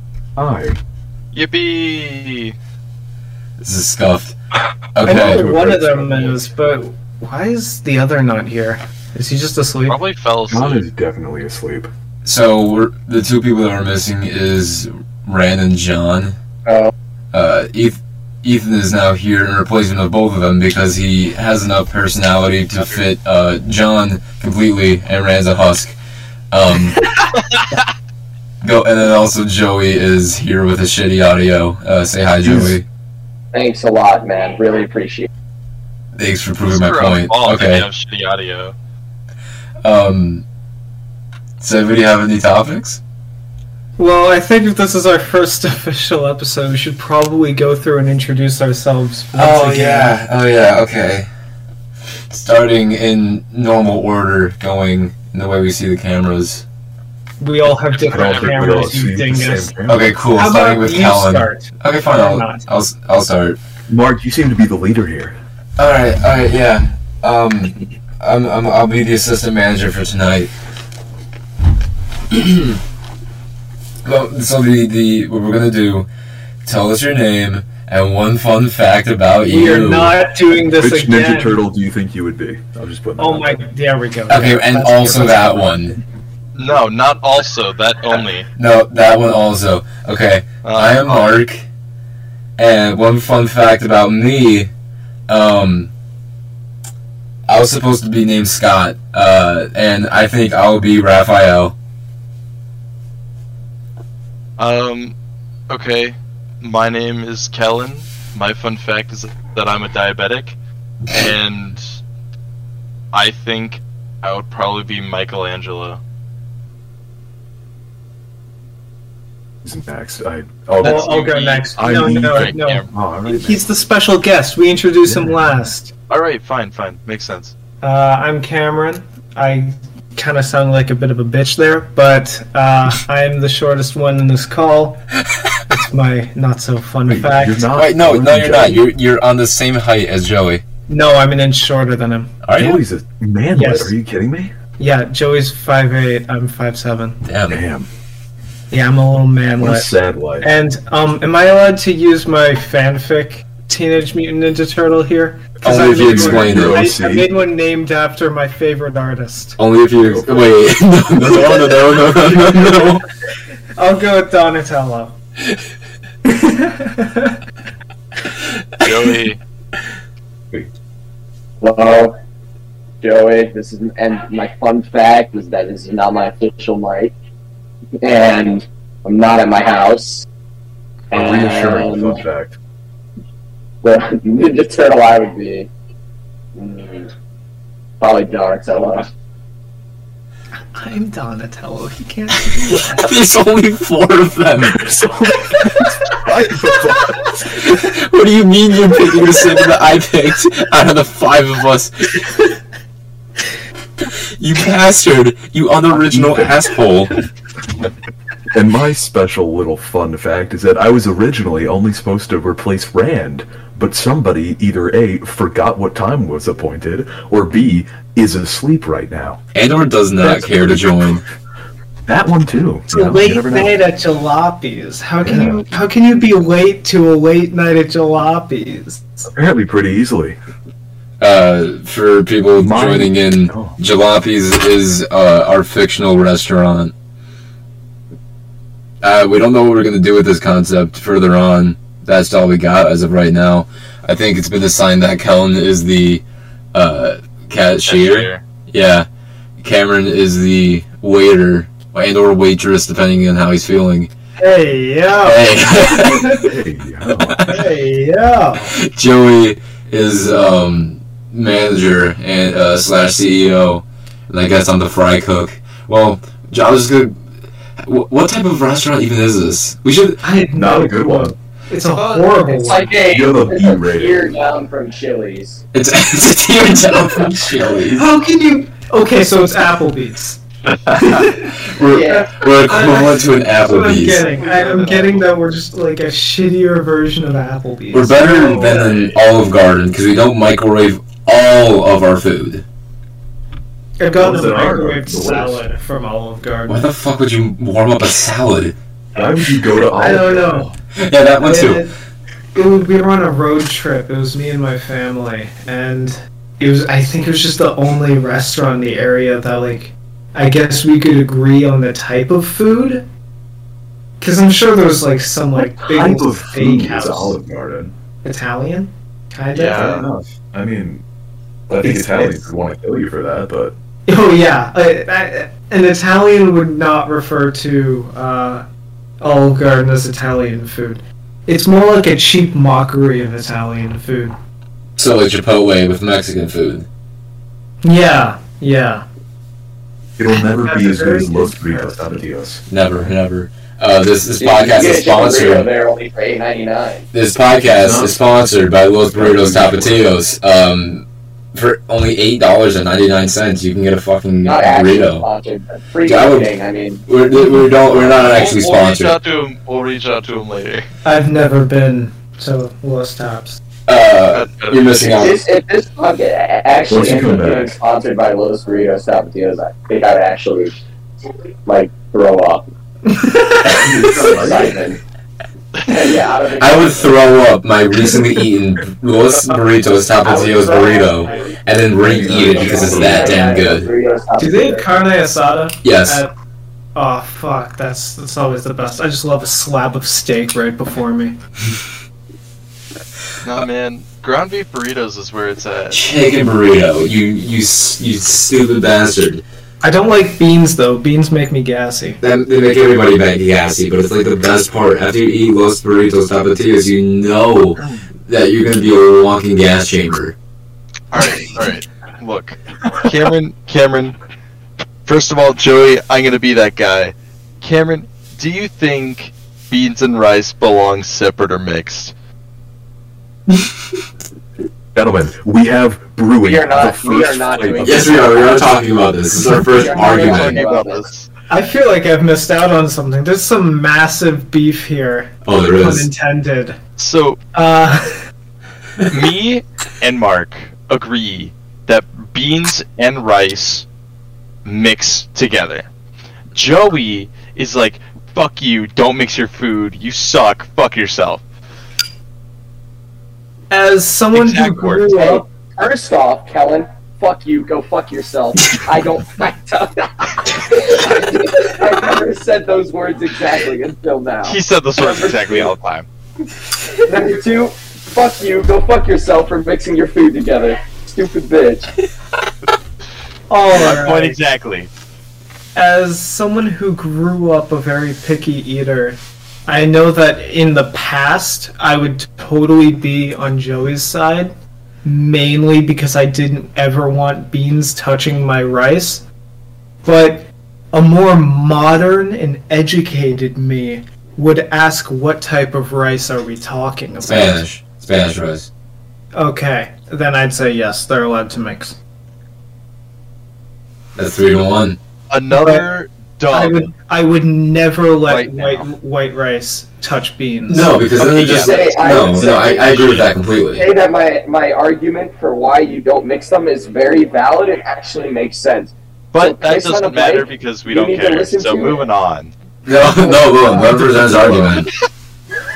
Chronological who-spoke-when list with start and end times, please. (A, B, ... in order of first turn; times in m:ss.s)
0:00.4-0:00.8 A
0:01.3-0:02.5 B
0:03.6-0:04.4 C
0:04.9-0:05.4 C
0:05.0-0:10.0 D
0:05.0-0:06.4 A
0:09.9-0:10.8 B
0:10.5-0:11.9 A
0:12.2-0:16.4 C
0:16.6-0:16.9 E
0:17.3-0:26.0 C
0:26.5-0:27.0 C
0:28.6-0:32.8 C
0:32.4-0:32.8 A
0:33.5-0:35.3 E
0:36.1-0:37.9 C
0:36.7-0:38.7 B
0:39.8-0:40.4 C
0:41.6-0:43.0 C
0:44.0-0:50.2 D
0:49.3-0:51.3 C
0:52.3-0:56.6 C
0:57.4-0:59.7 D
0:57.9-0:59.0 B
0:58.1-1:00.1 A
0:59.9-1:03.6 C
1:00.3-1:02.6 D
1:03.9-1:05.4 A
1:05.8-1:10.5 C
1:12.3-1:12.8 C
1:14.0-1:16.1 C
1:16.6-1:20.2 C
1:19.5-1:21.6 D
1:20.8-1:23.6 A
1:23.2-1:25.8 D
1:24.3-1:26.0 C
1:26.5-1:28.5 B
1:28.6-1:31.7 C
1:30.6-1:31.4 B
1:32.6-1:34.7 C
1:35.3-1:35.9 C
1:37.5-1:41.7 C
1:44.6-1:45.1 B
1:45.7-1:50.6 B
1:51.1-1:52.0 B
1:53.1-1:56.0 B
1:59.6-2:01.1 A
2:00.8-2:02.9 B
2:00.8-2:05.9 D
2:01.8-2:03.6 A
2:05.0-2:05.4 A
2:06.1-2:07.5 B
2:07.8-2:15.0 D
2:15.7-2:17.7 D
2:17.1-2:18.8 A
2:17.8-2:20.6 C
2:20.9-2:22.3 D
2:22.4-2:22.8 C
2:22.6-2:24.5 A
2:23.5-2:23.9 D
2:24.8-2:27.2 D
2:27.2-2:27.6 C
2:27.5-2:27.9 A
2:28.7-2:29.9 D
2:29.6-2:30.5 A
2:30.4-2:39.6 D
2:35.6-2:37.3 A
2:35.6-2:36.8 C
2:39.6-2:43.0 C
2:40.1-2:40.5 A
2:42.3-2:42.9 D
2:43.8-2:45.2 D
2:46.2-2:47.4 D
2:48.8-2:49.4 B
2:51.6-2:52.1 E
2:53.0-2:57.1 E
2:58.0-3:00.2 E
3:01.1-3:02.2 E
3:01.1-3:02.6 A
3:03.8-3:05.7 E
3:06.5-3:07.1 E
3:08.0-3:09.1 E
3:10.8-3:13.1 D
3:12.5-3:14.9 C
3:14.7-3:17.4 A
3:17.4-3:22.3 C
3:24.4-3:27.2 C
3:25.9-3:26.7 A
3:28.5-3:39.4 A
3:39.5-3:41.2 C
3:40.2-3:41.0 A
3:42.0-3:43.7 A
3:42.9-3:49.3 D
3:45.2-3:45.6 A
3:49.3-3:50.4 A
3:51.2-3:56.9 C
3:52.6-3:53.8 A
3:59.0-4:09.1 C
4:07.9-4:08.4 B
4:09.6-4:14.1 C
4:14.4-4:16.4 D
4:15.2-4:16.5 C
4:16.3-4:17.4 A
4:17.3-4:17.6 C
4:17.4-4:18.8 D
4:18.7-4:27.2 C
4:27.8-4:30.2 C
4:30.2-4:32.9 D
4:30.5-4:31.3 A
4:31.9-4:33.1 B
4:32.6-4:35.6 E
4:33.1-4:34.2 A
4:35.7-4:38.1 C
4:37.9-4:40.4 D
4:40.9-4:44.2 C
4:41.0-4:41.6 D
4:41.8-4:42.4 E
4:42.3-4:49.1 D
4:44.2-4:45.2 B
4:44.8-4:45.1 E
4:47.9-4:52.6 C
4:54.0-4:56.8 D
4:54.2-4:55.6 A
4:56.7-4:58.8 C
4:59.1-5:00.8 A
4:59.9-5:00.7 D
5:01.0-5:01.8 C
5:01.4-5:01.9 D
5:02.5-5:13.0 D
5:14.2-5:17.4 D
5:15.6-5:17.9 A
5:18.2-5:20.0 D
5:19.5-5:20.0 B
5:19.8-5:21.0 A
5:21.7-5:23.8 A
5:21.8-5:22.4 D
5:24.1-5:28.6 D
5:29.2-5:34.4 D
5:35.0-5:36.9 C
5:37.8-5:39.0 D
5:40.2-5:42.6 A
5:40.3-5:42.0 D
5:42.7-5:45.7 C
5:44.4-5:47.1 E
5:47.1-5:55.2 C
5:47.7-5:48.4 A
5:49.1-5:50.0 A
5:54.4-5:57.0 E
5:56.0-5:56.5 C
5:57.1-5:59.2 C
5:57.9-5:58.3 A
5:58.0-6:00.9 B
6:01.0-6:03.6 D
6:03.9-6:05.4 C
6:04.3-6:05.4 B
6:05.2-6:10.8 E
6:06.9-6:07.8 A
6:11.6-6:12.7 E
6:13.1-6:14.3 D
6:13.6-6:14.8 A
6:14.0-6:15.0 E
6:15.8-6:17.2 E
6:16.6-6:23.9 C
6:20.2-6:21.5 E
6:22.0-6:23.9 A
6:22.2-6:24.9 E
6:24.4-6:26.3 D
6:25.8-6:26.2 C
6:26.9-6:31.4 D
6:33.4-6:36.0 B
6:35.9-6:39.4 C
6:39.8-6:42.2 D
6:42.2-6:50.4 C
6:51.1-6:54.2 B
6:55.0-7:02.1 B
7:04.9-7:08.6 A
7:06.4-7:08.8 E
7:07.8-7:10.6 C
7:09.6-7:11.1 E
7:09.8-7:11.3 B
7:11.5-7:16.8 D
7:15.4-7:16.1 C
7:17.0-7:17.4 B
7:17.5-7:18.2 D
7:19.1-7:23.8 B
7:24.6-7:25.9 B
7:26.5-7:31.4 B
7:33.7-7:35.4 D
7:34.3-7:35.0 B
7:35.1-7:45.7 E
7:44.4-7:46.0 B
7:47.0-7:51.9 E
7:53.5-7:54.4 D
7:53.7-7:54.9 B
7:55.7-8:09.2 D
8:10.0-8:17.7 D
8:17.2-8:18.7 C
8:19.3-8:22.0 D
8:24.2-8:25.0 C
8:25.3-8:26.9 B
8:25.5-8:25.8 D
8:26.5-8:31.0 D
8:28.2-8:28.9 B
8:30.7-8:33.8 C
8:31.2-8:33.2 B
8:31.5-8:42.0 E
8:39.3-8:42.5 B
8:42.8-8:44.9 C
8:43.0-8:44.6 E
8:44.3-8:44.9 B